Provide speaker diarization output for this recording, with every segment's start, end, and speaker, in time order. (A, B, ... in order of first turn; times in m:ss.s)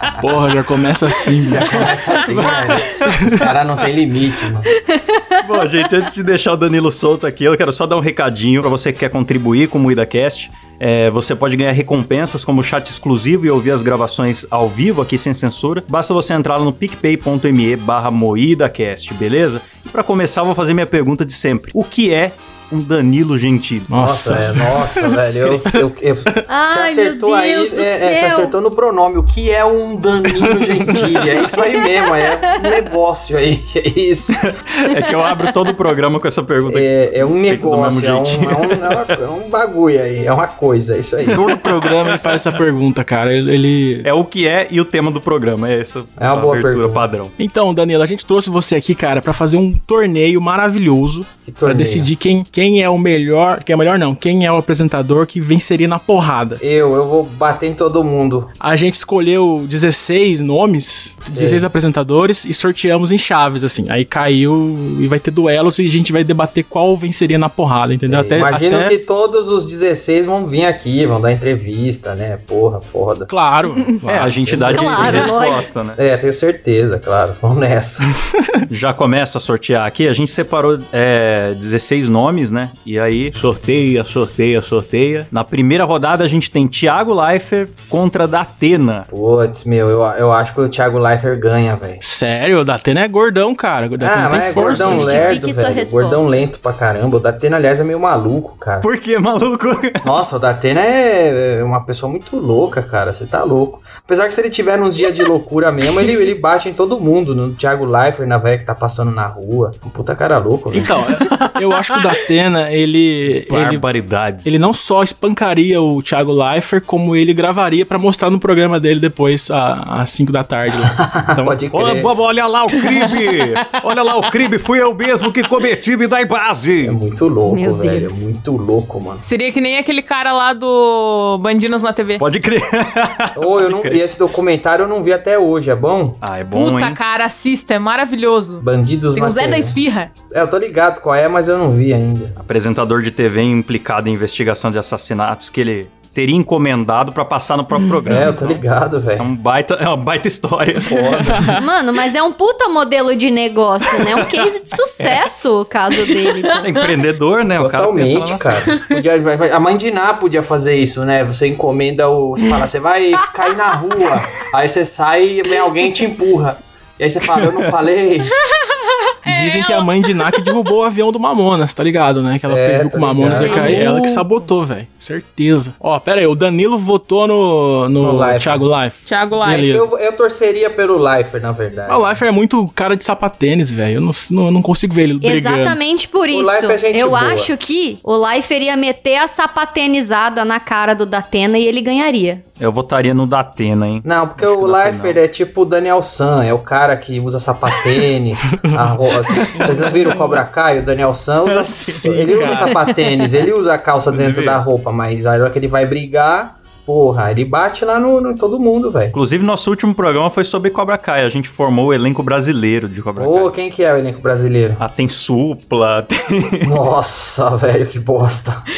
0:00.2-0:01.9 A
0:01.5-0:04.7 B
0:01.7-0:03.3 C
0:03.1-0:03.4 A
0:04.9-0:05.4 D
0:05.4-0:25.6 C
0:23.9-0:25.2 A
0:24.0-0:34.4 B
0:26.5-0:28.5 D
0:30.4-0:31.0 A
0:31.1-0:31.5 C
0:31.2-0:32.8 D
0:34.3-0:39.1 C
0:34.9-0:35.4 D
0:36.7-0:41.6 B
0:41.3-0:42.5 C
0:41.4-0:44.1 A
0:44.0-0:47.3 C
0:46.2-0:47.1 B
0:47.4-0:56.6 A
0:51.4-0:52.1 B
0:56.6-0:58.5 B
0:58.6-1:09.0 A
1:01.3-1:01.7 B
1:08.0-1:13.3 B
1:13.3-1:15.1 A
1:13.8-1:14.0 D
1:14.0-1:15.4 B
1:14.1-1:16.0 C
1:14.6-1:15.7 D
1:16.0-1:18.2 B
1:18.4-1:18.7 A
1:18.7-1:29.1 C
1:29.1-1:32.0 B
1:32.0-1:35.2 A
1:34.0-1:38.9 B
1:34.7-1:35.3 C
1:34.8-1:36.4 D
1:38.8-1:40.1 C
1:40.0-1:51.0 B
1:50.7-1:53.9 A
1:53.5-1:54.5 C
1:54.4-2:01.6 A
2:01.0-2:02.1 B
2:01.7-2:07.0 C
2:06.8-2:09.2 B
2:07.4-2:08.3 D
2:09.2-2:12.2 E
2:12.2-2:14.0 C
2:13.4-2:16.2 B
2:16.2-2:17.0 C
2:16.5-2:20.1 E
2:18.6-2:19.8 B
2:20.3-2:22.4 B
2:22.4-2:28.6 C
2:28.0-2:29.3 B
2:29.2-2:31.6 C
2:30.9-2:31.5 B
2:31.5-2:36.7 D
2:34.1-2:34.5 C
2:35.0-2:35.3 C
2:36.5-2:38.6 C
2:37.6-2:48.4 B
2:48.4-2:50.5 E
2:49.2-2:59.9 A
2:52.5-2:53.9 B
2:53.4-2:53.9 E
2:53.5-2:53.8 D
2:58.0-2:58.7 B
2:59.1-2:59.7 E
2:59.5-3:02.1 B
3:01.9-3:05.8 A
3:05.2-3:12.4 D
3:06.3-3:07.5 B
3:12.6-3:15.2 C
3:14.0-3:29.2 B
3:18.5-3:20.4 A
3:21.4-3:22.7 C
3:22.1-3:22.9 A
3:24.1-3:24.6 C
3:29.1-3:33.5 C
3:33.2-3:34.8 B
3:34.8-3:36.7 C
3:36.6-3:38.6 B